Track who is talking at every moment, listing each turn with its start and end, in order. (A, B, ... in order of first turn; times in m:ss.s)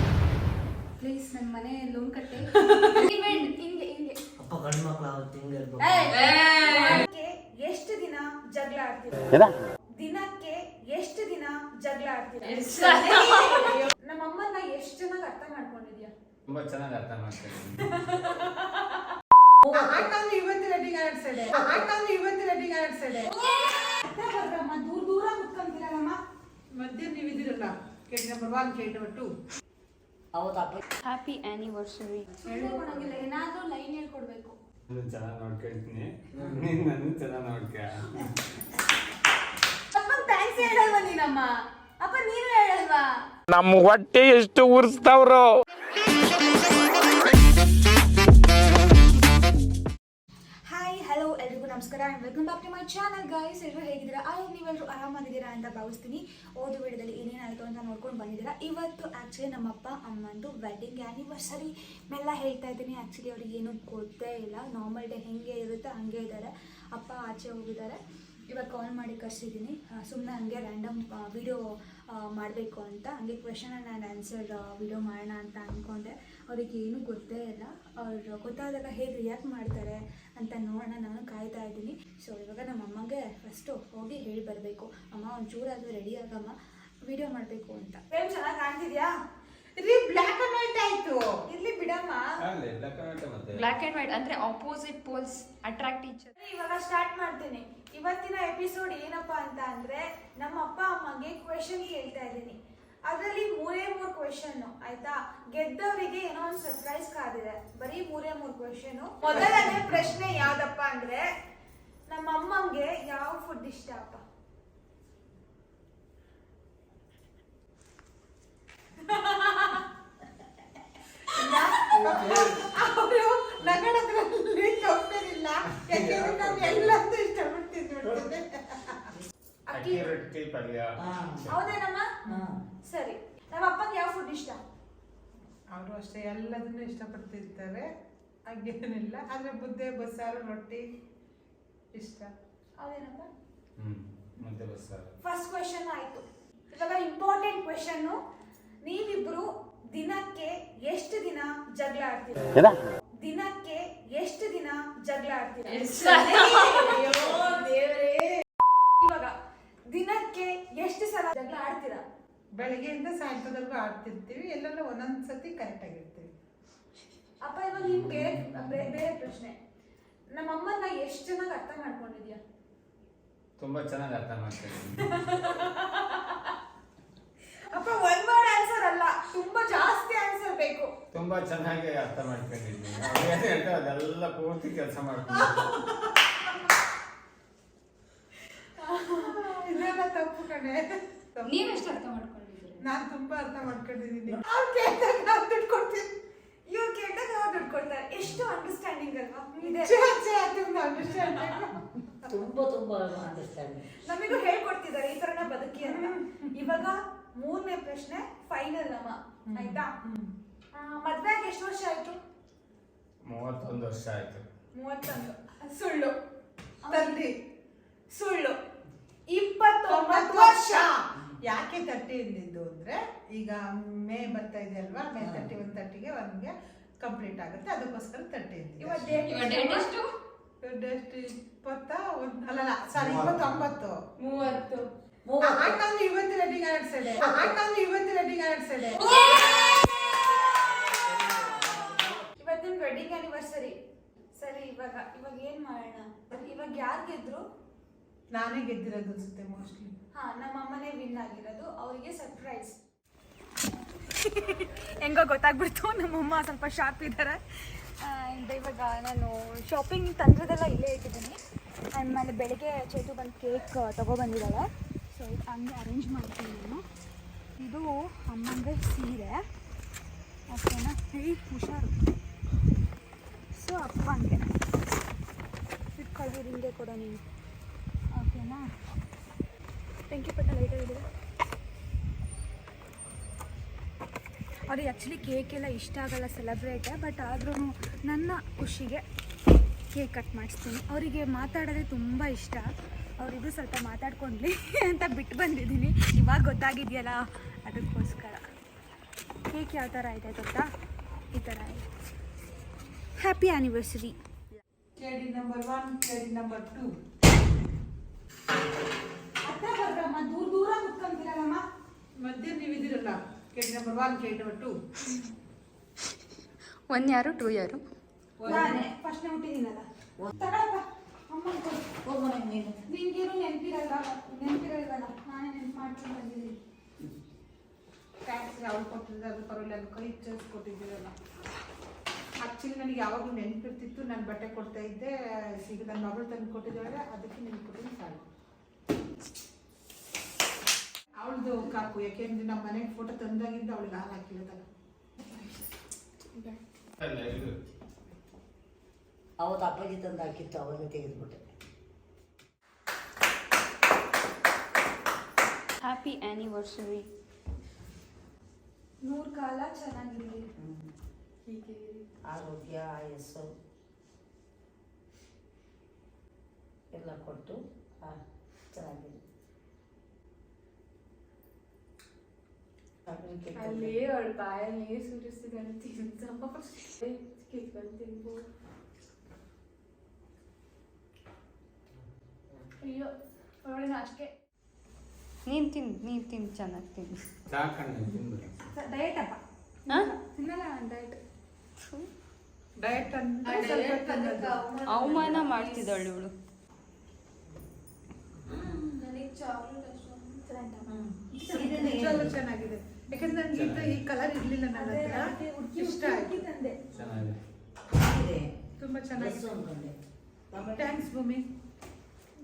0:01.0-0:04.2 A
0:04.4-0:06.3 B
0:05.8-0:09.3 A
0:06.4-0:07.0 C
0:10.0-0:16.1 A
0:12.4-0:13.9 C
0:16.5-0:18.0 D
0:19.6-0:20.1 B
0:19.7-0:23.3 E
0:23.3-0:26.2 A
0:26.8-0:29.3 E
0:30.3-0:30.8 B
0:31.0-0:32.9 C
0:32.4-0:34.6 A
0:34.9-0:38.3 D
0:36.4-0:36.6 B
0:39.9-0:43.2 A
0:43.5-0:45.6 F
0:50.7-1:08.0 A
1:08.5-1:29.1 A
1:29.8-1:31.3 E
1:31.5-1:32.3 A
1:32.4-1:33.7 D
1:33.5-1:36.3 C
1:36.4-1:51.3 A
1:52.1-1:54.2 A
2:01.3-2:09.1 E
2:01.4-2:02.5 B
2:02.1-2:02.4 D
2:05.8-2:07.0 D
2:09.7-2:10.1 A
2:09.7-2:11.6 D
2:11.0-2:11.5 B
2:11.5-2:12.1 A
2:12.3-2:12.5 E
2:12.3-2:12.6 B
2:12.9-2:14.6 A
2:15.7-2:17.9 E
2:18.5-2:20.9 E
2:21.9-2:22.3 E
2:22.8-2:23.3 A
2:23.8-2:25.1 D
2:25.2-2:28.2 A
2:28.8-2:32.7 A
2:33.2-2:38.2 A
2:35.7-2:37.6 C
2:39.0-2:39.4 A
2:39.9-2:42.0 A
2:42.6-2:46.3 E
2:47.4-2:49.6 A
2:50.3-2:52.4 A
2:53.6-2:55.2 D
2:55.2-2:56.0 A
2:57.7-3:00.9 A
3:01.1-3:05.7 D
3:08.8-3:09.5 A
3:09.2-3:11.8 E
3:11.4-3:12.8 C
3:12.8-3:16.2 E
3:16.7-3:20.1 A
3:19.6-3:21.8 E
3:22.3-3:23.9 B
3:24.0-3:29.9 A
3:29.5-3:30.3 E
3:30.7-3:32.2 A
3:33.2-3:34.4 D
3:34.7-3:36.2 A
3:36.8-3:37.2 A
3:36.9-3:37.3 E
3:38.1-3:38.6 A
3:39.3-3:40.9 A
3:39.9-3:49.2 E
3:45.2-3:45.5 B
3:48.8-3:49.9 A
3:49.2-3:50.1 C
3:50.6-3:54.0 E
3:53.0-3:53.4 B
3:54.2-3:54.9 C
3:55.2-3:55.8 B
3:55.4-3:59.0 E
3:57.2-3:57.6 B
3:59.0-3:59.7 C
3:59.0-4:00.2 A
4:02.4-4:03.8 A
4:04.4-4:07.4 A
4:08.3-4:10.0 E
4:10.1-4:12.8 A
4:14.2-4:21.4 A
4:21.9-4:26.8 A
4:27.6-4:29.4 A
4:30.5-4:32.0 A
4:33.5-4:34.5 A
4:36.0-4:37.2 A
4:38.1-4:38.7 A
4:40.1-4:41.1 A
4:44.7-4:49.0 A
4:49.9-4:58.4 A
4:59.5-5:00.7 A
5:01.3-5:01.8 A
5:03.2-5:04.2 A
5:05.0-5:06.9 E
5:09.4-5:11.6 A
5:12.2-5:14.8 E
5:15.0-5:15.3 A
5:16.9-5:17.8 C
5:18.4-5:18.8 E
5:18.4-5:22.0 A
5:22.1-5:22.7 B
5:22.7-5:26.6 A
5:28.2-5:31.1 E
5:32.4-5:38.2 E
5:41.2-5:44.6 E
5:46.3-5:46.6 C
5:47.0-5:47.6 D
5:49.4-5:51.4 B
5:55.8-5:57.1 C
5:59.0-6:00.4 A
6:00.6-6:00.9 B
6:01.4-6:02.1 C
6:02.3-6:03.5 B
6:06.9-6:08.2 B
6:08.7-6:09.2 B
6:13.1-6:14.0 B
6:13.6-6:18.4 C
6:22.8-6:23.1 A
6:23.6-6:24.3 A
6:25.5-6:27.2 C
6:27.5-6:28.5 D
6:28.7-6:31.2 A
6:31.8-6:32.1 C
6:32.8-6:34.6 E
6:33.6-6:35.8 A
6:34.9-6:36.3 C
6:38.5-6:40.9 A
6:40.9-6:42.3 B
6:41.4-6:46.4 E
6:43.5-6:44.0 D
6:44.7-6:46.8 A
6:46.9-6:47.4 D
6:47.9-6:48.5 B
6:48.8-6:49.6 E
6:49.1-6:50.0 B
6:50.5-6:51.0 B
6:50.8-6:51.5 E